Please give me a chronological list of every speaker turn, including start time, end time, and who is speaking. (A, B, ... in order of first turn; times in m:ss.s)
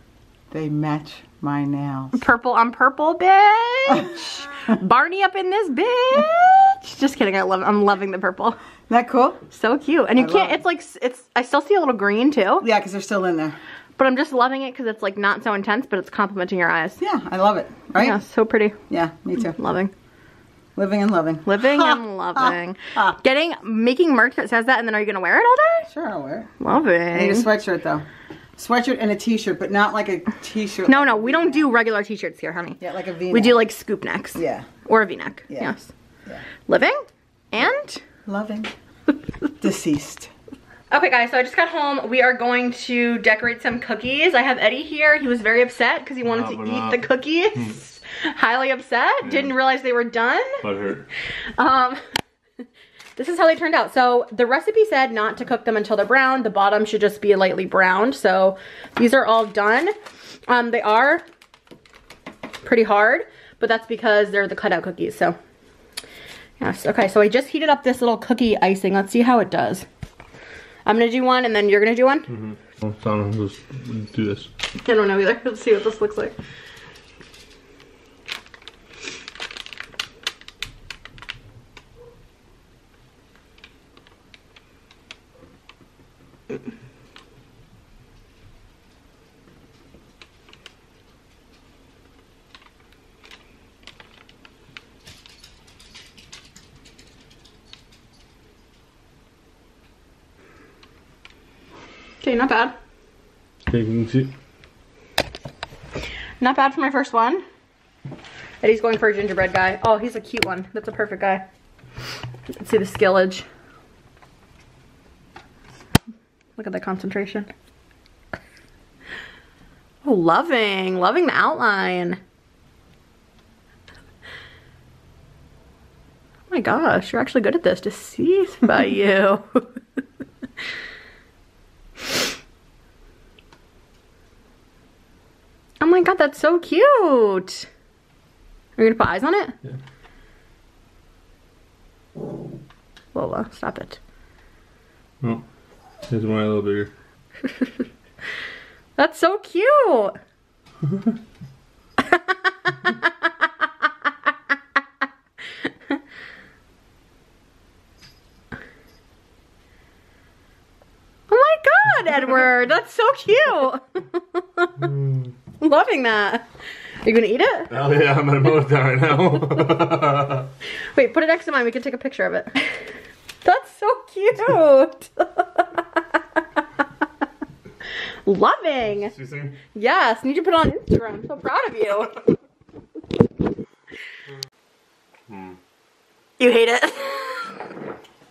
0:00.5-0:02.2 A
0:02.2-0:08.6 B
0:08.9-0:09.4 A
0:09.5-0:12.6 B
0:10.2-0:10.6 A
0:12.6-0:13.6 A
0:14.0-0:17.0 B
0:17.0-0:18.2 A
0:18.0-0:18.8 B
0:18.9-0:19.6 A
0:19.4-0:19.9 B
0:20.8-0:23.2 A
0:21.4-0:25.9 B
0:25.9-0:26.5 A
0:26.6-0:27.5 B
0:27.1-0:28.0 A
0:28.6-0:31.7 A
0:30.9-0:35.9 B
0:32.8-0:33.6 A
0:34.4-0:34.7 A
0:35.5-0:35.8 A
0:36.6-0:38.0 B
0:38.3-0:38.7 A
0:39.6-0:40.3 A
0:40.9-0:50.6 B
0:46.2-0:47.1 C
0:49.2-0:49.5 C
0:50.6-0:51.1 C
0:51.6-0:52.0 B
0:53.2-0:59.9 B
1:00.5-1:01.2 B
1:02.6-1:05.4 B
1:06.6-1:09.9 B
1:10.8-1:12.3 B
1:12.3-1:14.5 C
1:14.8-1:16.3 B
1:42.2-1:42.7 B
1:43.7-1:44.3 C
1:46.4-1:47.4 B
1:48.6-1:51.4 B
1:52.6-1:53.4 B
1:56.6-1:57.5 B
2:00.0-2:02.2 B
2:06.5-2:09.7 B
2:15.8-2:17.7 B
2:18.8-2:19.6 B
2:23.1-2:24.0 B
2:26.1-2:26.9 C
2:29.0-2:30.2 B
2:32.0-2:33.9 B
2:41.3-2:44.8 B
2:45.6-2:46.4 B
2:47.0-2:47.7 B
2:47.7-2:50.5 C
2:50.9-2:52.8 B
2:53.4-2:56.8 B
2:58.2-2:59.2 B
2:59.2-2:59.6 C
2:59.8-3:02.2 B
3:05.3-3:05.6 C
3:06.4-3:07.6 B